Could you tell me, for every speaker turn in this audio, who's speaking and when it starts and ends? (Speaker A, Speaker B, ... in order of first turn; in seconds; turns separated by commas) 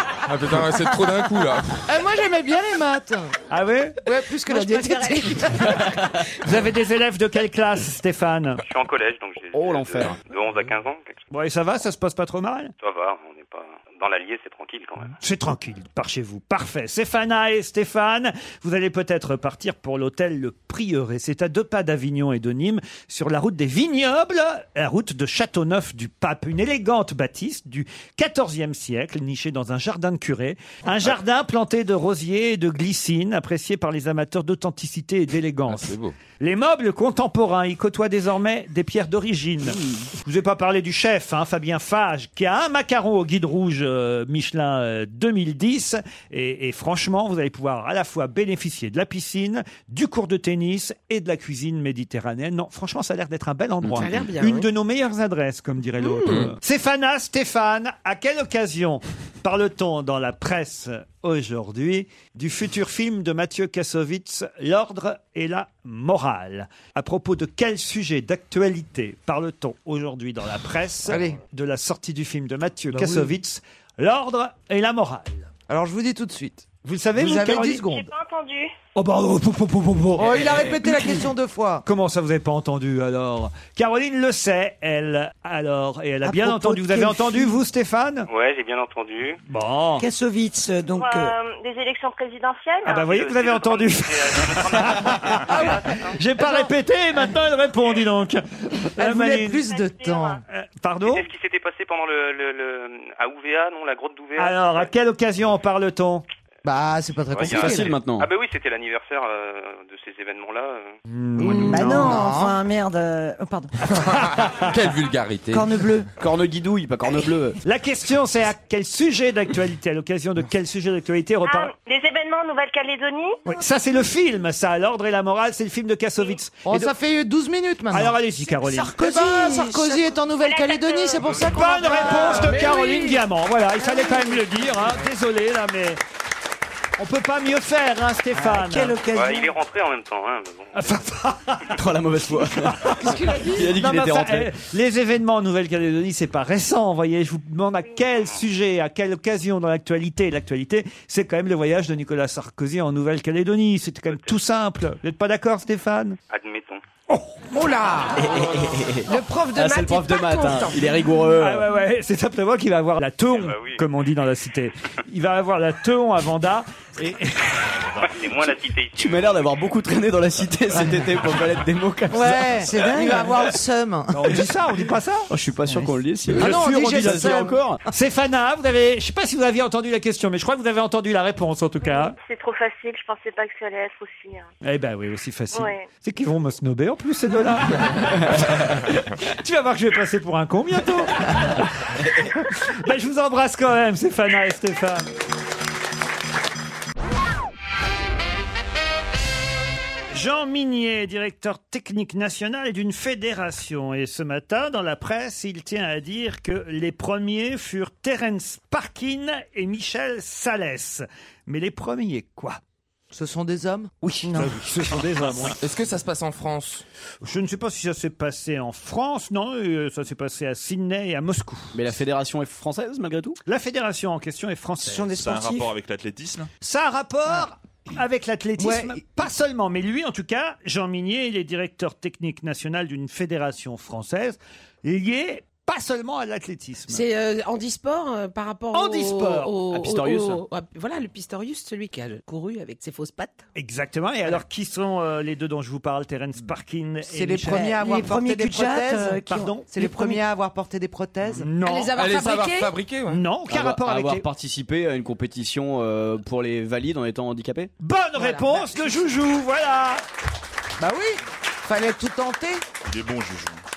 Speaker A: 0.2-1.8, Speaker B: 1.9-3.3, Speaker C: 3.5-4.0, Speaker B: 4.0-6.0, Speaker D: 4.4-6.2, Speaker C: 6.4-8.6, Speaker E: 8.6-11.2, Speaker F: 9.5-10.2, Speaker C: 11.3-12.7, Speaker E: 12.8-15.2, Speaker C: 15.2-75.4, Speaker A: 35.7-36.1, Speaker F: 39.8-40.1, Speaker D: 53.9-54.7, Speaker D: 56.0-56.5, Speaker A: 56.2-56.5, Speaker B: 71.0-71.4, Speaker B: 72.9-73.3, Speaker B: 75.7-78.0, Speaker C: 76.8-78.0, Speaker G: 77.8-78.7, Speaker C: 78.9-81.2, Speaker B: 80.2-81.8, Speaker C: 81.8-88.3, Speaker H: 86.2-87.6, Speaker E: 88.3-89.4, Speaker C: 89.5-90.0, Speaker H: 90.0-91.3, Speaker G: 90.9-94.8, Speaker C: 92.8-99.6, Speaker E: 93.6-95.1, Speaker G: 95.6-96.1, Speaker B: 99.0-100.4, Speaker G: 99.5-100.4, Speaker C: 100.5-101.3, Speaker E: 101.0-104.9, Speaker C: 104.4-106.2, Speaker B: 106.6-107.9, Speaker E: 107.3-111.0, Speaker F: 107.5-108.3, Speaker C: 111.1-112.2, Speaker B: 111.4-112.5, Speaker H: 111.5-113.9, Speaker A: 114.0-115.7, Speaker C: 114.2-114.5, Speaker H: 115.5-116.1, Speaker F: 116.2-117.6, Speaker C: 117.6-121.7, Speaker G: 121.4-123.4, Speaker C: 123.5-126.8, Speaker B: 126.6-128.2, Speaker C: 127.9-128.9, Speaker H: 128.5-130.1, Speaker B: 128.8-133.2, Speaker G: 130.4-131.6, Speaker C: 131.4-136.0, Speaker D: 132.3-133.2, Speaker H: 134.0-134.2, Speaker C: 137.0-138.9, Speaker H: 138.3-139.5, Speaker E: 139.1-141.0, Speaker C: 140.7-156.2, Speaker F: 141.7-144.5, Speaker B: 143.0-143.7, Speaker D: 143.1-143.6, Speaker E: 156.3-156.8, Speaker C: 157.1-157.4, Speaker D: 157.5-161.1, Speaker F: 158.2-161.7, Speaker C: 161.4-167.7, Speaker E: 163.4-163.8, Speaker E: 168.0-169.5, Speaker F: 168.9-173.3, Speaker B: 172.1-174.3, Speaker C: 174.1-182.1, Speaker F: 175.3-177.8, Speaker B: 176.3-177.6, Speaker G: 181.8-184.5, Speaker C: 184.6-191.9, Speaker G: 185.5-185.8, Speaker C: 192.4-195.1, Speaker C: 200.1-212.6, Speaker B: 213.1-213.9, Speaker C: 214.0-215.6, Speaker H: 214.2-214.7, Speaker A: 215.4-216.8, Speaker C: 217.2-221.8, Speaker F: 221.7-223.4, Speaker C: 223.4-225.4, Speaker H: 224.8-225.7, Speaker I: 225.0-226.5, Speaker C: 226.6-237.1, Speaker B: 228.6-229.0, Speaker D: 236.9-243.5, Speaker C: 238.7-239.5, Speaker F: 239.7-240.4, Speaker C: 243.5-247.7, Speaker B: 247.1-251.5, Speaker H: 247.5-250.2, Speaker C: 249.2-249.7, Speaker C: 251.4-251.9, Speaker D: 251.6-252.8, Speaker A: 251.9-253.2, Speaker C: 253.1-254.3, Speaker F: 253.5-257.7, Speaker C: 257.8-260.0, Speaker B: 260.8-262.6, Speaker I: 262.8-263.6